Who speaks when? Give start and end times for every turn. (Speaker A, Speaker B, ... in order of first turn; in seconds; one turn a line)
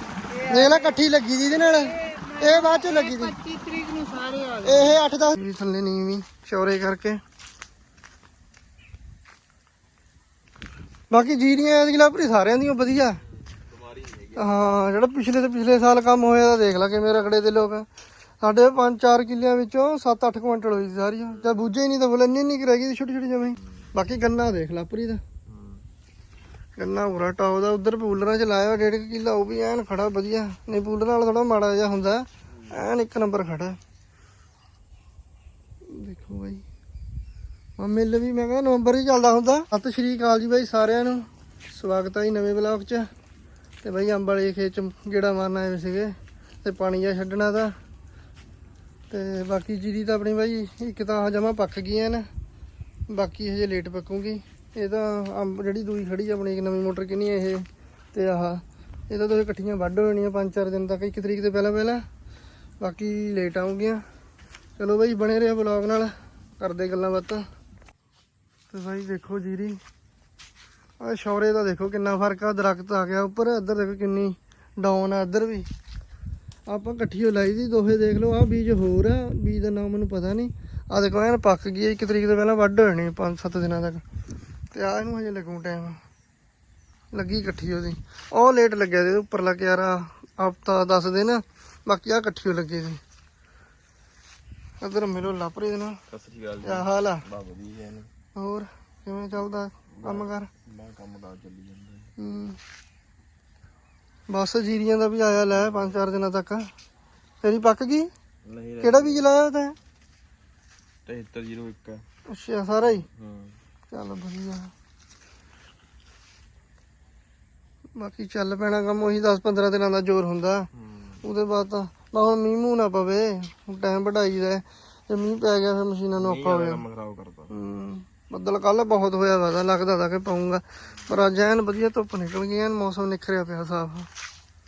Speaker A: 0.3-5.0
Speaker B: 0.5-3.3
Speaker B: 4.6-7.2
Speaker B: 11.1-13.2
Speaker C: 13.3-14.8
Speaker B: 14.4-17.9
Speaker B: 18.4-25.2
Speaker C: 21.2-21.7
Speaker C: 23.6-23.9
Speaker C: 25.5-25.8
Speaker B: 26.8-33.8
Speaker C: 32.5-32.8
Speaker B: 35.9-36.6
Speaker B: 37.8-43.1
Speaker B: 43.8-47.8
Speaker B: 49.1-52.3
Speaker B: 53.1-62.0
Speaker B: 62.8-64.0
Speaker B: 64.8-67.5
Speaker B: 68.7-69.8
Speaker B: 71.0-75.7
Speaker B: 76.7-84.0
Speaker B: 84.7-86.0
Speaker B: 87.1-93.0
Speaker B: 94.8-96.0
Speaker C: 96.1-98.1
Speaker B: 96.6-97.2
Speaker B: 98.3-100.5
Speaker C: 99.9-102.1
Speaker B: 102.2-102.6
Speaker B: 104.3-106.7
Speaker C: 105.5-106.0
Speaker B: 107.4-108.1
Speaker C: 108.4-109.3
Speaker B: 108.8-109.7
Speaker C: 111.0-112.0
Speaker B: 112.3-113.0
Speaker C: 112.8-113.6
Speaker B: 113.9-114.7
Speaker B: 118.0-120.7
Speaker C: 120.7-121.2
Speaker B: 121.2-126.8
Speaker C: 126.2-127.5
Speaker B: 127.5-134.1